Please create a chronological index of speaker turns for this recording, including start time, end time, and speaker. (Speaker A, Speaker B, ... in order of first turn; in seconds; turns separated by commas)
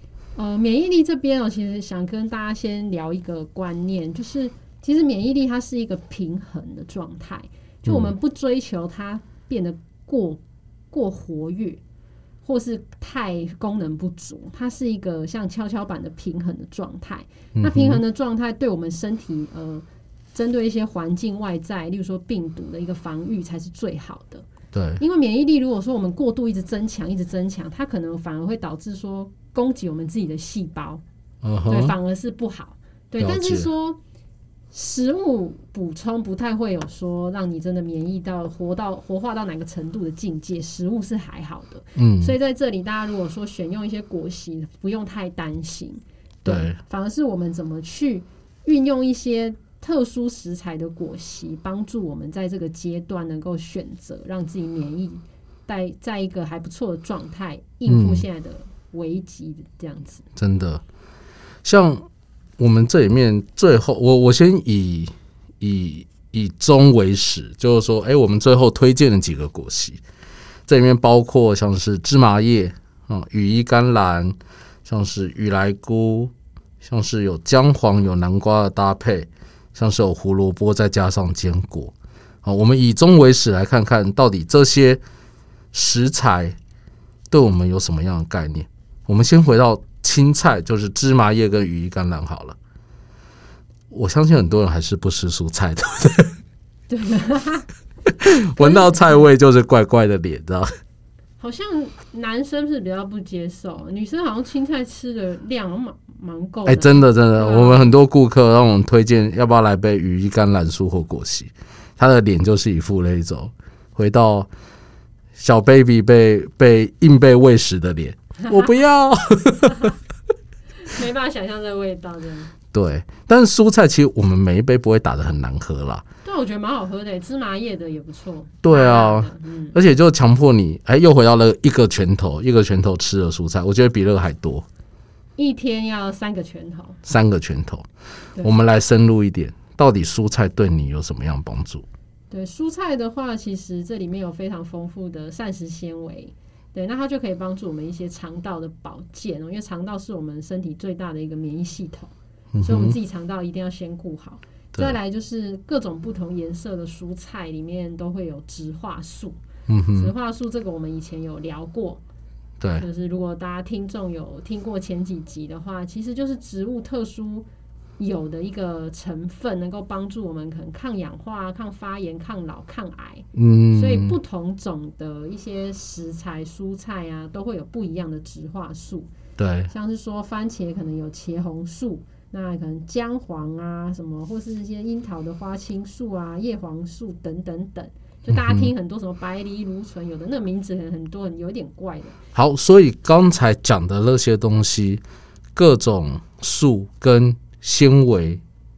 Speaker A: 0.4-11.8, Speaker B: 7.9-8.1, Speaker A: 12.4-24.5, Speaker B: 17.6-18.0, Speaker B: 24.7-25.0, Speaker A: 25.0-31.0, Speaker B: 31.4-31.9, Speaker A: 31.7-34.0, Speaker B: 33.2-33.7, Speaker A: 34.7-60.2, Speaker B: 42.0-42.3, Speaker B: 46.5-46.8, Speaker B: 57.9-58.2, Speaker B: 60.4-60.8, Speaker B: 61.6-62.1, Speaker B: 62.6-70.0, Speaker B: 70.7-85.0, Speaker B: 85.7-86.6, Speaker B: 87.3-92.6, Speaker B: 93.9-96.3, Speaker A: 96.9-97.7, Speaker B: 98.2-100.7, Speaker A: 98.6-99.2, Speaker A: 101.4-108.0, Speaker B: 106.7-114.5, Speaker B: 115.4-120.0, Speaker A: 118.4-118.8, Speaker A: 120.8-122.5, Speaker B: 122.7-126.0, Speaker A: 126.2-129.8, Speaker B: 128.6-134.7, Speaker A: 135.4-137.0, Speaker B: 137.1-137.9, Speaker B: 138.4-141.9, Speaker A: 142.3-159.4, Speaker B: 152.5-153.0, Speaker B: 159.7-160.1, Speaker A: 159.9-162.0, Speaker B: 162.6-162.9, Speaker A: 162.8-167.5, Speaker A: 168.0-179.1, Speaker B: 173.3-174.2, Speaker B: 179.4-179.7, Speaker A: 179.7-192.2, Speaker B: 188.3-188.7, Speaker B: 192.3-195.0, Speaker B: 195.6-198.4